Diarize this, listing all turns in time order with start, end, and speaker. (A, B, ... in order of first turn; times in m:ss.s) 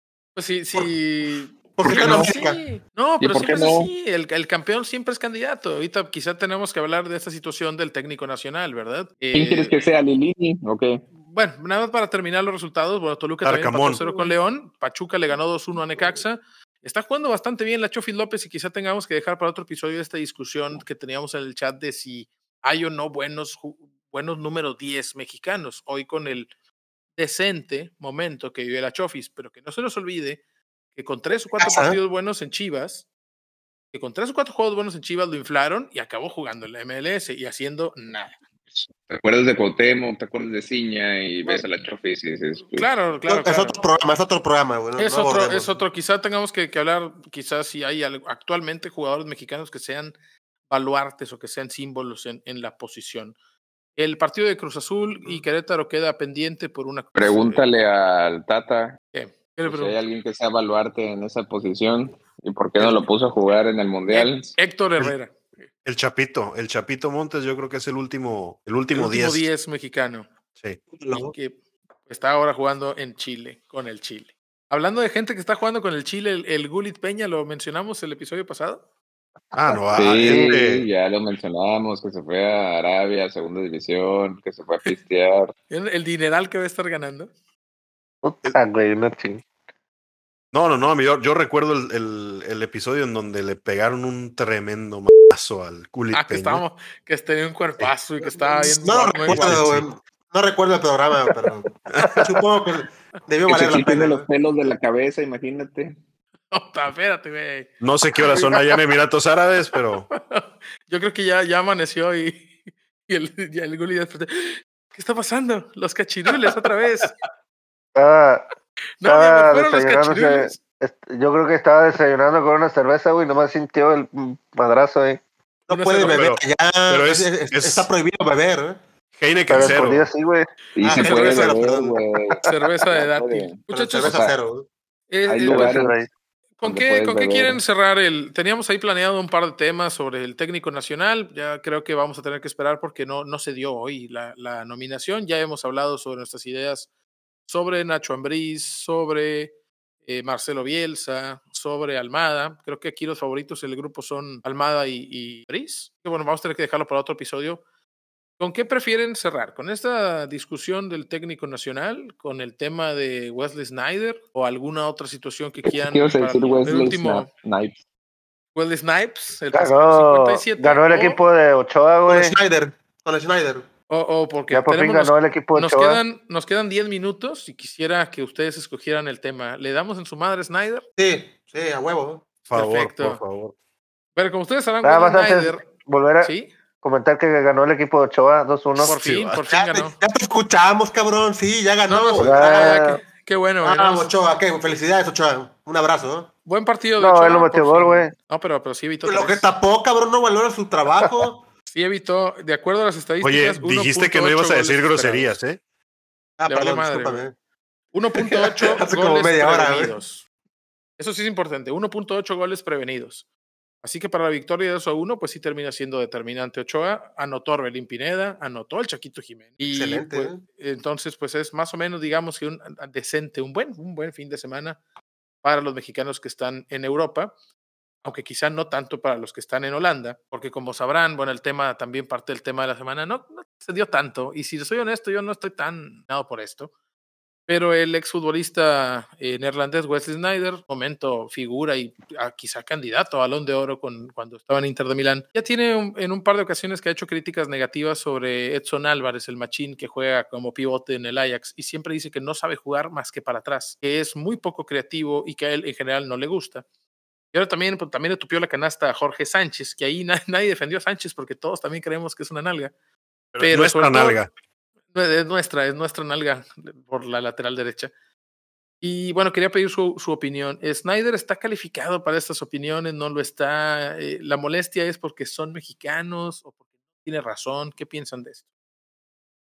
0:00.4-0:09.7 A
0:01.8-0:02.6 B
0:01.9-0:02.2 C
0:03.2-0:03.9 C
0:09.3-0:11.0 C
0:11.2-0:26.5 A
0:13.4-0:14.0 D
0:27.2-0:30.4 A
0:30.9-0:33.0 A
0:31.6-0:32.0 B
0:33.9-0:38.4 A
0:38.7-0:42.9 C
0:42.7-0:43.8 A
0:43.3-0:45.8 B
0:45.0-0:50.1 A
0:50.7-0:53.4 A
0:54.0-0:57.6 A
0:57.2-0:59.0 C
0:59.1-1:00.0 A
0:59.6-1:04.5 C
1:04.1-1:05.5 A
1:05.8-1:09.4 D
1:08.9-1:10.3 A
1:10.9-1:11.3 B
1:11.1-1:18.8 A
1:19.5-1:20.9 D
1:19.9-1:25.5 C
1:20.2-1:20.6 E
1:25.7-1:27.3 A
1:28.2-1:29.4 E
1:30.5-1:36.6 D
1:36.1-1:39.7 A
1:38.3-1:44.2 B
1:39.2-1:39.8 D
1:41.9-1:42.2 D
1:43.5-1:46.0 C
1:46.5-1:48.8 A
1:47.8-1:50.1 D
1:50.1-1:57.1 A
1:57.9-1:58.4 E
1:59.0-2:00.6 A
1:59.0-2:05.2 E
2:05.7-2:08.8 B
2:05.7-2:06.2 A
2:05.8-2:07.9 D
2:09.2-2:10.1 D
2:09.5-2:10.5 E
2:10.8-2:14.3 C
2:10.8-2:12.0 B
2:10.9-2:11.5 A
2:12.4-2:14.1 A
2:13.7-2:14.7 B
2:15.1-2:15.8 A
2:15.3-2:16.0 C
2:15.5-2:16.1 E
2:16.6-2:26.9 A
2:16.6-2:17.6 C
2:27.4-2:29.5 A
2:30.0-2:37.6 A
2:38.4-2:47.3 A
2:45.6-2:47.8 C
2:48.5-2:51.2 A
2:49.5-2:52.3 E
2:52.1-2:53.6 B
2:53.9-3:00.8 A
2:54.5-2:56.0 E
3:01.0-3:02.4 B
3:02.5-3:03.2 A
3:02.5-3:03.5 D
3:04.2-3:05.6 A
3:04.8-3:09.0 E
3:06.2-3:06.5 A
3:08.8-3:09.4 D
3:08.8-3:10.0 A
3:09.5-3:12.8 B
3:11.9-3:14.1 A
3:12.2-3:13.0 E
3:13.6-3:16.3 B
3:16.4-3:19.5 A
3:17.0-3:18.1 E
3:19.0-3:21.4 B
3:21.7-3:25.4 A
3:23.2-3:25.6 D
3:26.4-3:27.3 B
3:26.5-3:27.2 A
3:27.9-3:30.2 A
3:28.2-3:30.0 B
3:31.0-3:33.2 A
3:33.8-3:44.8 A
3:39.7-3:40.4 B
3:45.4-3:47.3 A
3:48.0-3:56.7 A
3:57.5-4:16.6 A
4:17.3-4:22.7 A
4:23.3-4:24.3 D
4:23.4-4:24.2 A
4:24.9-4:27.9 A
4:28.8-4:38.4 A